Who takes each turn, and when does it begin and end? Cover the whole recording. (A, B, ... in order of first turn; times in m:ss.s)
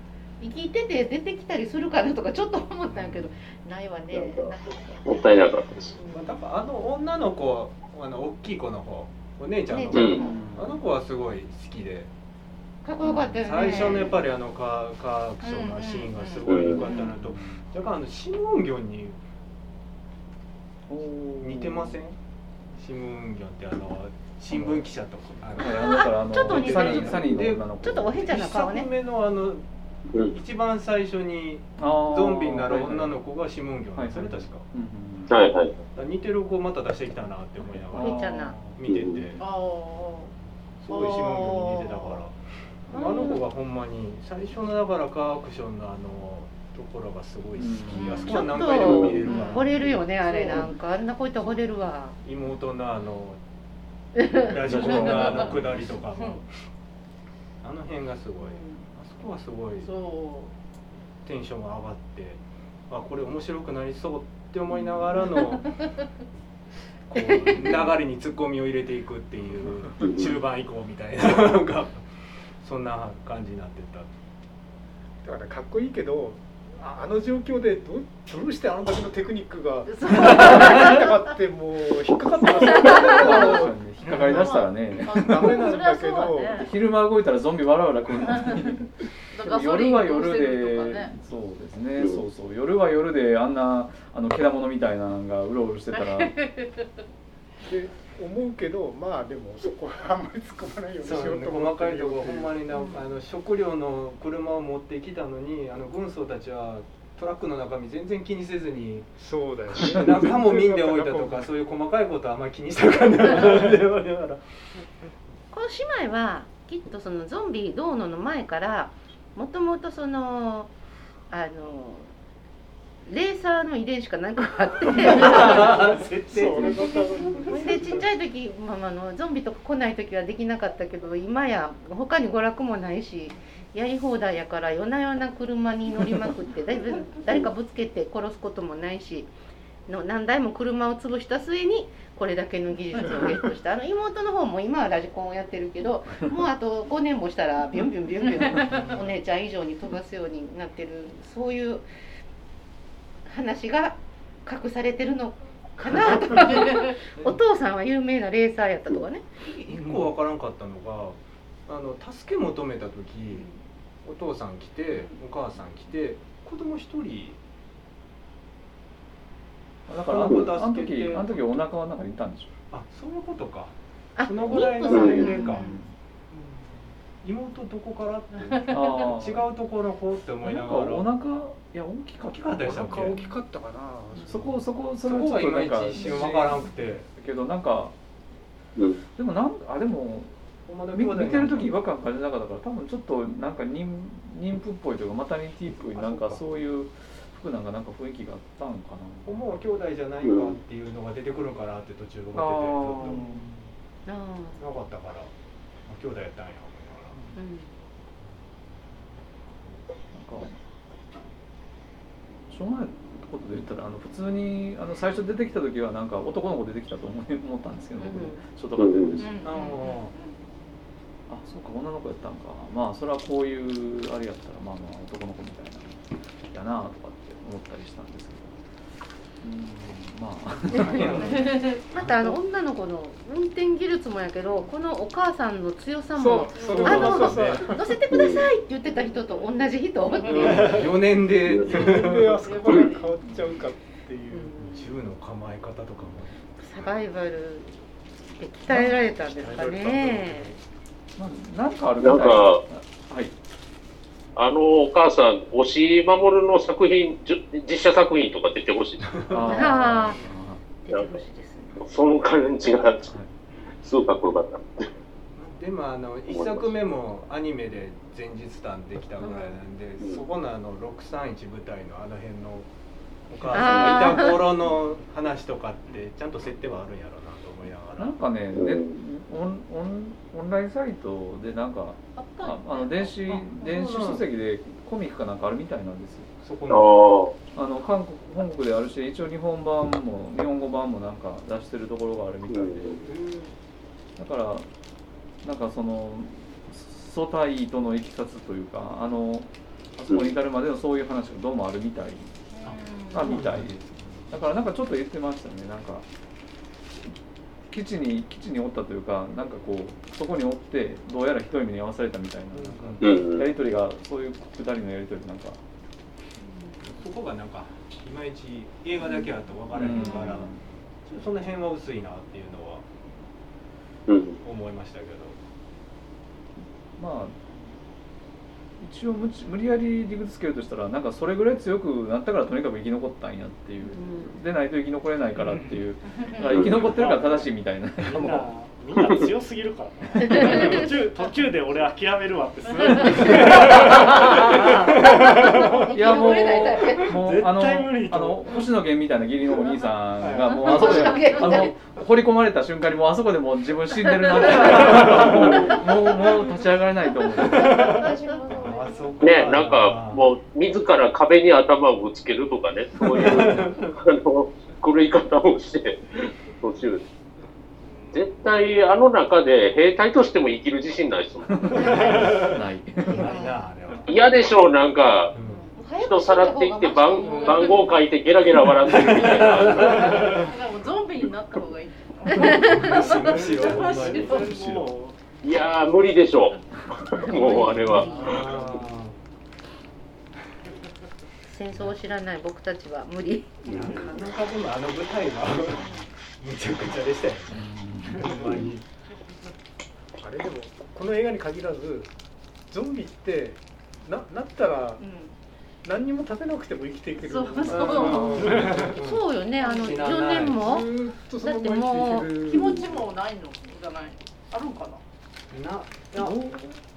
0:00.4-0:06.4 A
0:02.9-0:03.3 B
0:04.1-0:04.5 C
0:05.0-0:05.7 C
0:05.8-0:12.1 D
0:09.7-0:10.4 A
0:09.9-0:10.3 C
0:10.2-0:10.8 B
0:12.8-0:14.2 A
0:13.0-0:14.0 B
0:13.4-0:19.2 D
0:15.4-0:17.1 E
0:16.5-0:16.9 C
0:16.9-0:17.6 B
0:20.9-0:22.0 B
0:21.4-0:22.2 D
0:22.8-0:29.6 D
0:24.5-0:24.9 B
0:25.6-0:28.3 B
0:25.6-0:28.9 A
0:30.1-0:30.4 C
0:30.3-0:34.6 D
0:31.8-0:33.2 B
0:34.0-0:35.4 B
0:35.3-0:35.8 C
0:35.9-0:39.4 D
0:37.6-0:39.4 B
0:38.0-0:38.6 A
0:38.9-0:39.2 C
0:39.4-0:40.3 E
0:40.8-0:42.4 D
0:40.9-0:42.1 E
0:42.9-0:43.4 A
0:42.9-0:49.8 D
0:47.6-0:48.3 B
0:48.0-0:48.3 E
0:48.0-0:52.2 A
0:48.8-0:49.2 C
0:48.9-0:50.7 B
0:49.3-0:49.6 E
0:52.2-0:53.4 D
0:54.2-0:54.9 A
0:54.3-0:56.5 D
0:54.6-0:55.9 B
0:54.8-0:55.5 E
0:57.6-0:59.9 D
0:59.8-1:00.5 E
1:01.2-1:05.6 D
1:07.1-1:12.0 D
1:07.2-1:07.9 A
1:10.0-1:10.4 C
1:12.6-1:14.1 D
1:15.2-1:23.8 F
1:19.9-1:21.3 E
1:22.4-1:26.7 E
1:22.9-1:25.8 B
1:24.1-1:24.4 G
1:25.1-1:26.7 F
1:26.6-1:36.4 B
1:28.3-1:28.7 E
1:29.3-1:31.1 E
1:35.9-1:36.8 E
1:37.6-1:42.6 F
1:41.0-1:49.1 D
1:49.2-1:51.5 F
1:49.7-1:54.4 D
1:55.5-2:00.7 A
2:01.3-2:02.1 A
2:03.1-2:06.0 A
2:05.0-2:07.6 D
2:05.3-2:08.0 F
2:06.6-2:07.3 G
2:07.5-2:19.3 A
2:19.9-2:31.8 A
2:28.4-2:28.8 E
2:33.3-2:39.2 A
2:39.4-2:43.5 D
2:44.0-2:47.4 D
2:49.9-2:52.5 B
2:50.1-2:51.4 D
2:50.2-2:50.5 C
2:52.7-2:55.7 D
2:54.2-2:55.7 A
2:54.9-2:55.4 C
2:55.2-2:55.9 B
2:55.2-2:55.8 E
2:56.3-2:56.7 F
2:57.2-3:01.1 D
2:58.7-2:59.5 B
3:00.4-3:03.3 B
3:02.3-3:03.2 D
3:02.7-3:04.5 F
3:04.2-3:08.0 B
3:05.0-3:07.1 D
3:08.8-3:09.0 C
3:09.2-3:10.3 B
3:10.7-3:11.7 D
3:10.9-3:19.4 B
3:16.0-3:16.4 D
3:19.2-3:23.2 D
3:20.2-3:20.6 C
3:22.3-3:23.5 B
3:23.1-3:23.5 F
3:24.1-3:24.6 A
3:24.6-3:25.3 D
3:25.9-3:27.2 D
3:27.4-3:27.7 A
3:30.1-3:30.5 B
3:32.5-3:39.4 B
3:38.0-3:38.4 A
3:38.8-3:39.2 C
3:39.2-3:40.4 E
3:39.4-3:40.1 D
3:41.3-3:48.6 B
3:49.4-3:51.6 B
3:50.8-4:00.9 A
3:50.8-3:51.4 D
3:56.2-3:57.9 F
3:56.6-3:57.0 E
3:56.6-3:57.7 D
3:58.1-3:58.5 C
4:00.2-4:00.6 E
4:00.3-4:02.4 D
4:01.5-4:02.0 C
4:01.7-4:04.6 F
4:02.4-4:03.1 E
4:04.3-4:04.9 A
4:04.6-4:06.3 D
4:06.6-4:10.5 A
4:09.3-4:10.6 F
4:11.2-4:13.3 B
4:12.0-4:12.6 C
4:14.4-4:19.3 C
4:19.0-4:19.7 D
4:19.3-4:20.6 B
4:19.4-4:20.2 A
4:20.8-4:22.1 A
4:20.9-4:21.2 C
4:21.8-4:23.1 C
4:23.8-4:24.9 C
4:25.4-4:32.7 D
4:26.3-4:26.8 C
4:29.2-4:29.6 A
4:33.3-4:38.1 D
4:33.5-4:34.5 A
4:38.0-4:46.3 B
4:38.5-4:39.0 C
4:42.2-4:43.5 E
4:43.3-4:44.2 D
4:46.4-4:46.9 D
4:46.7-4:47.4 C
4:47.5-4:53.0 B
4:52.5-4:53.0 C
4:53.0-4:53.5 D
4:54.2-4:54.7 B
4:55.4-5:02.3 B
5:02.6-5:03.3 E
5:02.6-5:04.3 D
5:03.1-5:06.1 B
5:07.7-5:15.6 B
5:12.5-5:13.0 D
5:13.0-5:13.5 C
5:16.8-5:20.5 D
5:19.7-5:20.6 B
5:19.9-5:20.4 A
5:21.1-5:22.8 D
5:24.1-5:24.4 C
5:24.4-5:25.4 D
5:27.0-5:27.4 B
5:28.8-5:38.5 B
5:33.8-5:34.4 A
5:35.4-5:35.8 G
5:36.2-5:36.6 E
5:36.5-5:36.8 C
5:36.8-5:37.5 G
5:38.0-5:45.9 G
5:40.3-5:40.8 A
5:42.7-5:43.3 E
5:44.5-5:47.2 A
5:45.9-5:58.1 B
5:47.0-5:48.7 G
5:50.2-5:50.6 G
5:50.5-5:51.7 A
5:50.9-5:51.4 E
5:54.5-5:55.0 A
5:55.2-5:55.8 C
5:55.7-5:56.2 A
5:57.2-5:59.2 A
5:58.5-6:00.3 D
5:59.2-6:07.0 C
6:03.1-6:03.9 D
6:07.9-6:08.2 G
6:08.1-6:12.1 C
6:11.6-6:13.4 B
6:11.8-6:12.5 A
6:12.1-6:12.5 D
6:13.1-6:14.2 D
6:13.1-6:13.6 A
6:14.1-6:15.3 C
6:15.3-6:15.7 D
6:15.4-6:17.9 A
6:16.0-6:20.4 C
6:17.2-6:17.8 E
6:18.9-6:20.4 D
6:19.8-6:24.5 E
6:22.3-6:24.5 D
6:22.4-6:22.9 A
6:23.8-6:25.2 G
6:24.4-6:24.8 B
6:25.4-6:26.6 C
6:27.1-6:28.4 C
6:27.2-6:28.6 A
6:28.1-6:29.1 D
6:31.5-6:34.2 A
6:33.7-6:38.9 D
6:37.5-6:38.6 B
6:40.2-6:42.1 F
6:42.7-6:45.0 F
6:45.0-6:45.3 E
6:45.8-6:48.3 F
6:47.2-6:48.4 E
6:47.7-6:50.7 D
6:47.9-6:48.8 B
6:48.6-6:48.9 G
6:48.9-6:52.8 A
6:49.6-6:50.1 E
6:50.5-6:53.0 F
6:52.4-6:55.0 E
6:55.5-6:56.4 D
6:56.1-6:56.7 A